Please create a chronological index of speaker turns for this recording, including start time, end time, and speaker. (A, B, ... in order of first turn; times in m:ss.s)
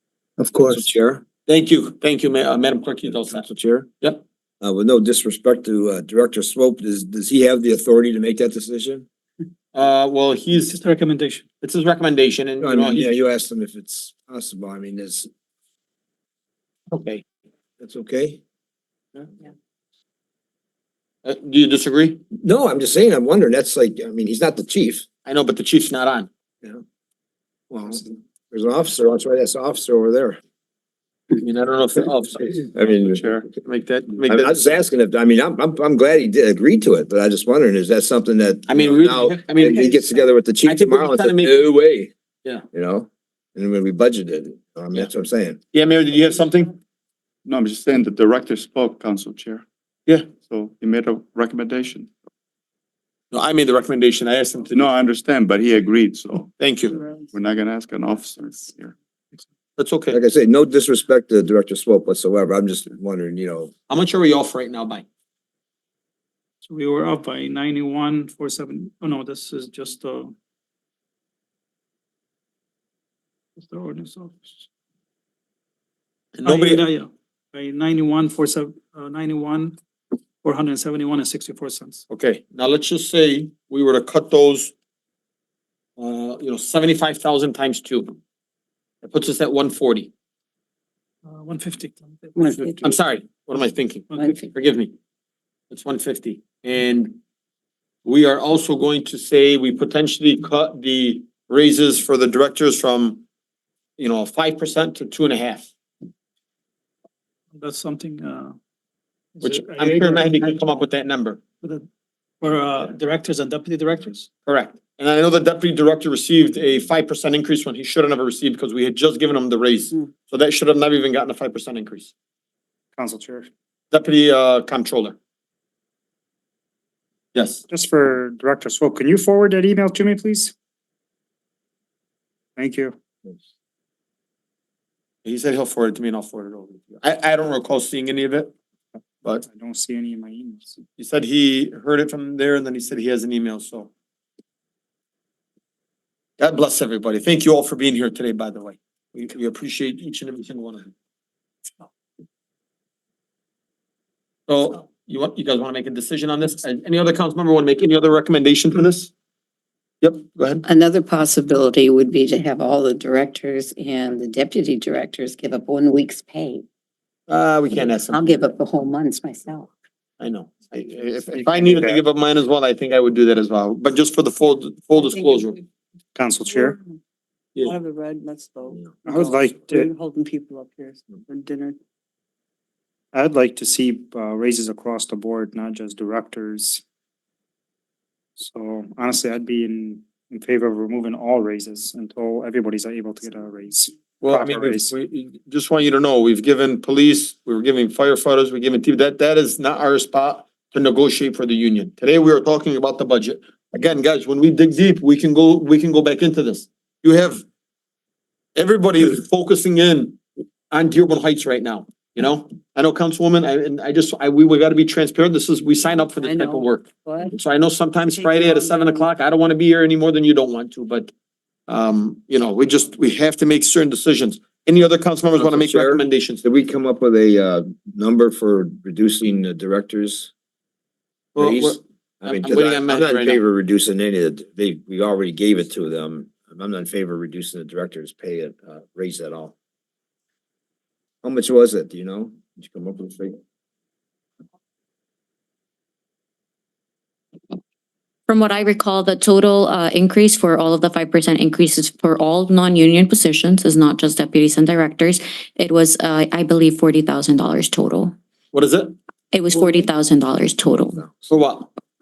0:00.5-0:00.8 A
0:00.7-0:01.2 B
0:01.4-0:03.4 C
0:03.1-0:03.9 B
0:04.6-0:09.0 B
0:09.7-0:10.8 C
0:10.6-0:11.4 D
0:11.6-0:13.1 C
0:12.6-0:15.3 B
0:16.9-0:17.2 C
0:17.8-0:18.4 B
0:21.2-0:22.2 C
0:22.3-0:25.0 B
0:25.2-0:26.3 C
0:27.7-0:30.4 B
0:31.3-0:32.9 C
0:32.7-0:33.2 B
0:33.0-0:33.4 A
0:33.5-0:34.6 C
0:34.2-0:42.1 B
0:38.7-0:40.0 C
0:40.6-0:41.7 C
0:42.7-0:45.6 B
0:45.7-0:46.8 C
0:47.4-0:49.6 A
0:50.4-0:52.1 A
0:53.3-0:54.8 C
0:54.7-0:56.7 A
0:56.6-0:57.0 C
0:57.0-0:57.3 E
0:57.3-0:58.9 A
0:59.8-1:00.2 C
1:00.1-1:03.7 B
1:03.9-1:05.0 C
1:06.6-1:10.3 D
1:13.6-1:14.6 D
1:16.4-1:16.8 C
1:16.4-1:19.8 D
1:20.4-1:22.0 D
1:22.1-1:24.7 C
1:26.0-1:28.2 C
1:29.0-1:30.1 C
1:31.3-1:33.0 D
1:32.4-1:32.8 E
1:32.8-1:34.9 C
1:34.1-1:34.5 D
1:34.2-1:34.4 F
1:35.7-1:37.2 C
1:38.0-1:43.2 C
1:44.0-1:45.7 C
1:47.6-1:48.6 D
1:49.4-1:50.9 D
1:49.4-1:51.4 C
1:52.4-1:54.3 D
1:54.4-2:02.1 C
2:02.9-2:03.5 G
2:03.9-2:05.2 C
2:07.3-2:07.6 C
2:07.7-2:10.5 G
2:12.6-2:12.9 G
2:15.2-2:18.5 C
2:19.4-2:20.8 G
2:21.0-2:23.9 C
2:26.4-2:30.9 C
2:34.5-2:39.1 C
2:40.0-2:40.6 C
2:40.6-2:46.6 F
2:47.3-2:48.4 C
2:47.9-2:49.7 F
2:50.2-2:55.6 C
2:51.4-2:52.0 G
2:56.1-2:56.8 G
2:56.4-2:56.7 E
2:57.6-3:01.8 E
2:59.0-2:59.9 G
3:03.1-3:06.8 G
3:08.4-3:14.9 G
3:14.2-3:27.4 C
3:28.6-3:30.2 C
3:30.7-3:41.1 C
3:41.7-3:46.4 C
3:45.4-3:50.3 B
3:51.4-3:53.4 C
3:51.4-3:59.5 B
4:01.2-4:03.4 B
4:08.3-4:18.1 H
4:18.5-4:18.9 C
4:19.3-4:21.0 H
4:19.6-4:19.8 E
4:20.8-4:21.3 B
4:21.3-4:21.7 C